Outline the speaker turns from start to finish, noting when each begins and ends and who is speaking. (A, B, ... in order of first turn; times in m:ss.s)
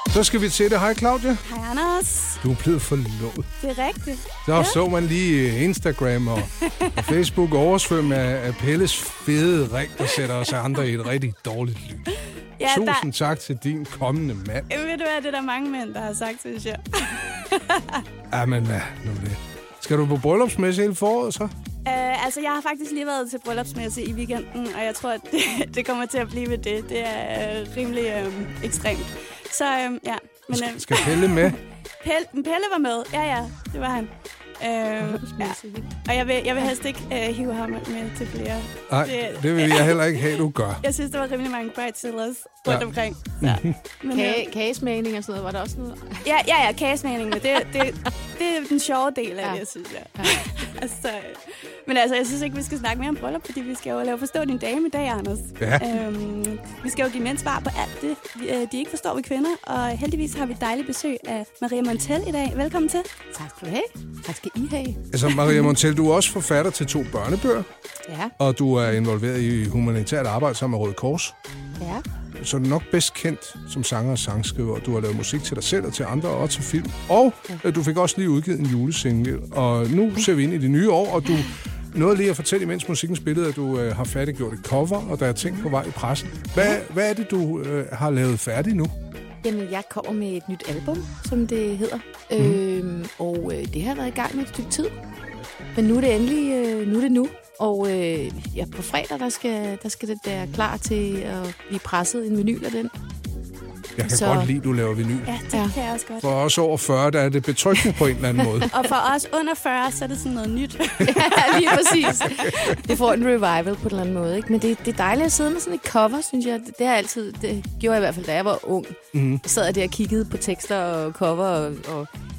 0:00.1-0:01.4 A
0:01.4-0:02.4 B
0:02.4-0:03.5 A
0:03.6-0:04.8 B
0:04.4-0:14.7 A
0:06.6-0:07.0 B
0:12.6-0:13.1 B
0:14.7-0:18.0 B
0:18.3-0:21.5 A
0:21.8-0:40.2 B
0:30.5-0:31.6 A
0:35.0-0:35.9 C
0:38.9-0:40.8 A
0:40.8-0:44.5 B
0:43.4-0:43.8 A
0:44.1-0:46.2 C
0:46.2-1:03.1 B
0:55.6-0:55.9 A
1:03.3-1:05.6 C
1:05.1-1:07.7 A
1:08.1-1:08.3 C
1:08.4-1:11.4 A
1:12.4-1:28.9 A
1:29.4-1:34.9 C
1:35.7-1:42.9 C
1:44.0-1:45.3 A
1:44.0-1:44.5 C
1:45.3-1:46.3 B
1:46.2-1:48.7 A
1:48.7-1:52.2 B
1:51.0-2:02.1 C
1:59.1-1:59.4 A